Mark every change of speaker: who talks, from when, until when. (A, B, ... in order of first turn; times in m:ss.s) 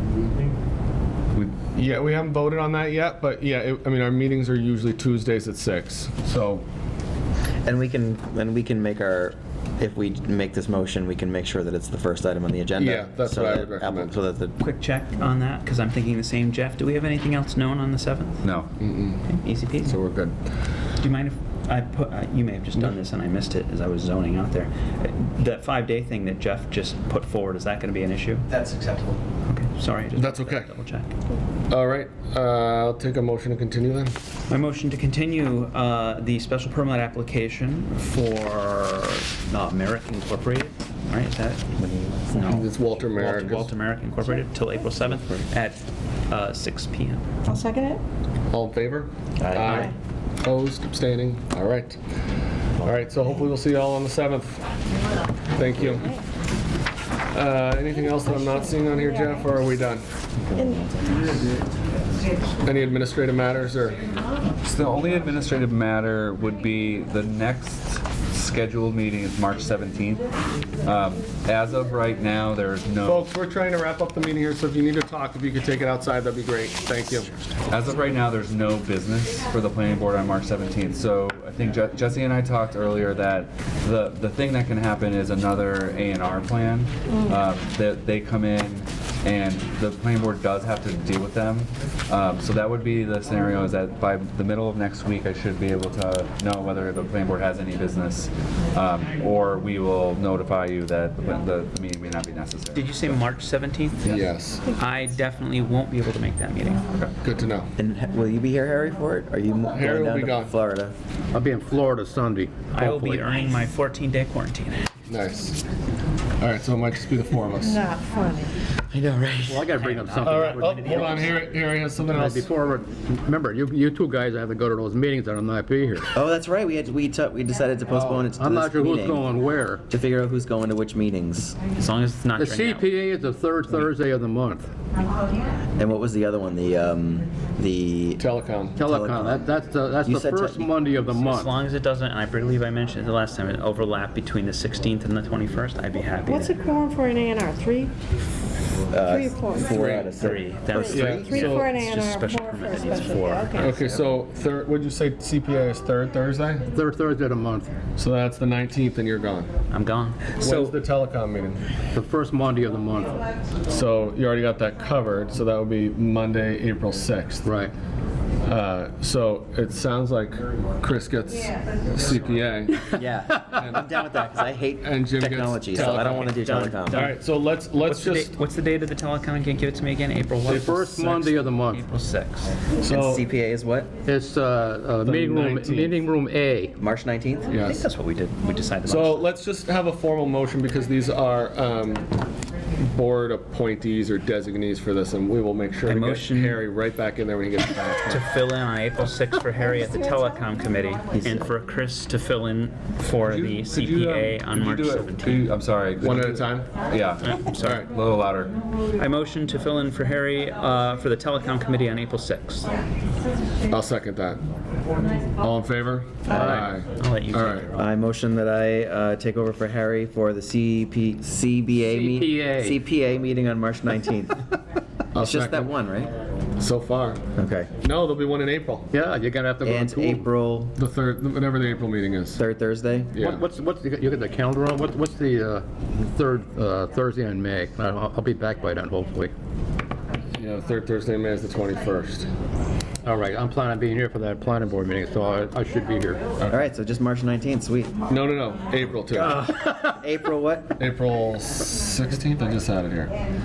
0:01.6-0:06.6 A
0:07.6-0:14.6 B
0:12.8-0:14.2 A
0:14.6-0:18.4 C
0:18.4-0:18.7 D
0:18.8-0:19.2 A
0:19.2-0:20.0 C
0:19.8-0:20.4 A
0:21.0-0:28.5 C
0:28.5-0:29.2 B
0:29.4-0:31.1 C
0:30.2-0:30.7 A
0:31.7-0:34.1 A
0:34.5-0:41.7 C
0:41.8-0:42.5 B
0:42.3-0:47.2 C
0:42.4-0:43.7 A
0:45.1-0:45.4 B
0:47.5-0:48.0 E
0:48.5-0:49.9 A
0:49.4-0:49.9 B
0:50.4-0:52.0 A
0:52.8-0:54.6 A
0:55.5-0:56.1 A
0:57.3-1:00.0 A
0:58.1-0:59.6 E
1:00.5-1:00.9 B
1:00.6-1:00.8 E
1:02.6-1:04.0 A
1:04.6-1:10.2 D
1:10.8-1:13.2 D
1:13.0-1:17.3 A
1:17.7-1:43.2 D
1:42.7-1:47.1 C
1:44.0-1:44.7 A
1:47.2-1:47.7 A
1:47.8-1:50.9 B
1:49.7-1:50.5 A
1:51.3-1:53.2 F
1:52.7-1:54.9 C
1:55.1-1:55.6 A
1:56.4-1:57.9 A
1:57.6-1:58.5 E
1:58.9-1:59.7 B
1:59.4-2:01.3 F
1:59.9-2:00.6 C
2:00.2-2:02.5 A
2:02.1-2:06.1 F
2:06.1-2:09.2 B
2:08.3-2:09.8 F
2:09.9-2:11.6 B
2:11.8-2:12.9 C
2:12.4-2:14.7 F
2:15.8-2:18.2 B
2:18.2-2:18.8 A
2:18.8-2:21.5 F
2:18.8-2:19.4 B
2:20.0-2:20.7 B
2:21.2-2:26.6 C
2:26.3-2:27.9 E
2:28.9-2:31.5 B
2:29.1-2:29.8 E
2:29.7-2:30.2 A
2:30.2-2:33.8 C
2:30.8-2:33.7 E
2:30.9-2:31.7 A
2:33.5-2:36.6 A
2:33.6-2:34.1 B
2:36.7-2:37.7 F
2:38.0-2:39.5 A
2:39.7-2:40.8 C
2:40.4-2:41.6 A
2:41.9-2:43.2 F
2:43.7-2:47.5 A
2:47.4-2:47.7 F
2:48.4-2:53.0 A
2:53.0-2:57.1 B
2:53.6-2:53.9 A
2:54.8-2:56.3 A
2:55.8-2:57.2 C
2:56.9-2:58.4 A
2:57.8-3:02.6 C
3:00.4-3:01.8 F
3:02.8-3:03.2 A
3:02.8-3:03.9 B
3:04.0-3:06.7 F
3:05.0-3:06.0 A
3:06.8-3:07.5 B
3:07.5-3:07.8 A
3:07.6-3:09.3 C
3:08.8-3:12.0 A
3:12.8-3:18.2 A
3:15.8-3:16.6 C
3:18.1-3:25.5 C
3:21.1-3:21.5 B
3:23.2-3:23.6 A
3:23.6-3:28.5 D
3:26.0-3:26.7 A
3:27.2-3:27.8 C
3:27.5-3:27.9 A
3:29.0-3:32.7 C
3:33.7-3:34.4 A
3:35.4-3:37.7 A
3:36.3-3:36.6 B
3:36.3-3:36.7 F
3:37.0-3:37.9 C
3:37.7-3:44.4 B
3:41.9-3:42.8 F
3:45.1-3:45.7 A
3:45.1-3:46.1 B
3:46.6-3:47.2 A
3:47.3-3:47.7 B
3:47.8-3:48.9 A
3:48.9-3:50.2 F
3:49.6-3:50.7 B
3:50.8-3:52.4 A
3:52.4-3:53.1 B
3:53.1-3:53.4 A
3:53.2-3:59.3 F
4:00.4-4:02.3 A
4:03.0-4:06.2 F
4:06.5-4:07.9 B
4:08.1-4:09.4 A
4:09.1-4:10.7 B
4:10.8-4:13.1 A